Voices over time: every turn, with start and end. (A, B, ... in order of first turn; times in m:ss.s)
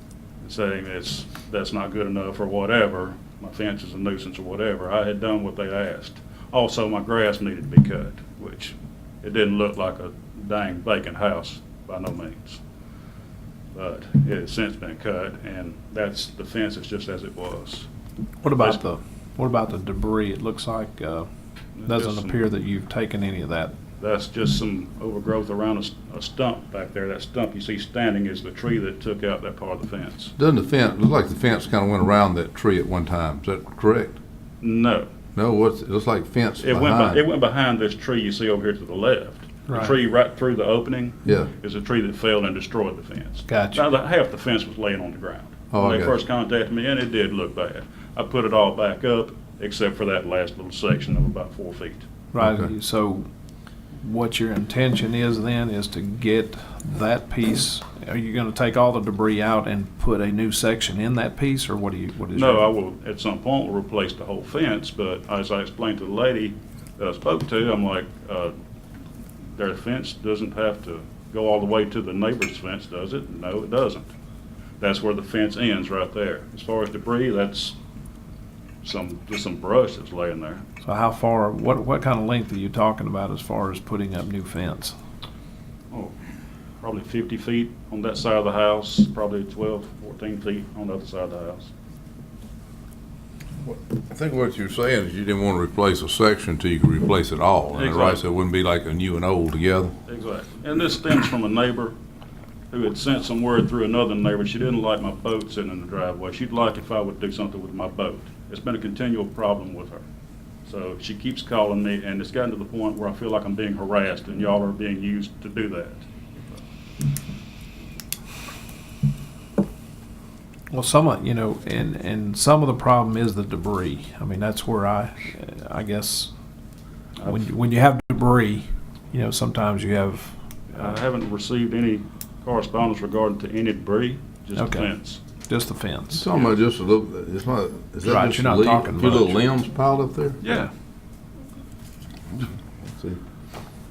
0:00.4-0:12.6 A
0:13.7-0:17.9 A
0:18.4-0:21.3 B
0:18.5-0:18.8 A
0:21.8-0:22.4 A
0:21.9-0:23.7 B
0:24.0-0:30.3 A
0:30.4-0:34.2 C
0:34.6-0:35.1 A
0:35.3-0:37.2 C
0:36.6-0:52.0 A
0:43.5-0:43.8 B
0:45.7-0:46.2 C
0:52.3-0:53.3 B
0:52.4-0:52.7 C
0:54.0-1:02.6 B
1:02.3-1:08.5 A
1:09.5-1:14.1 A
1:14.8-1:17.8 A
1:18.8-1:20.6 A
1:20.8-1:24.9 B
1:26.8-1:31.7 A
1:33.6-1:39.9 C
1:37.7-1:38.2 A
1:40.0-1:41.9 A
1:42.7-1:50.0 A
1:50.6-1:56.6 A
2:00.7-2:06.3 B
2:07.2-2:11.0 B
2:10.7-2:15.2 A
2:14.5-2:14.9 B
2:15.4-2:16.2 B
2:16.1-2:20.4 C
2:18.0-2:19.4 B
2:20.4-2:20.7 A
2:22.3-2:23.2 C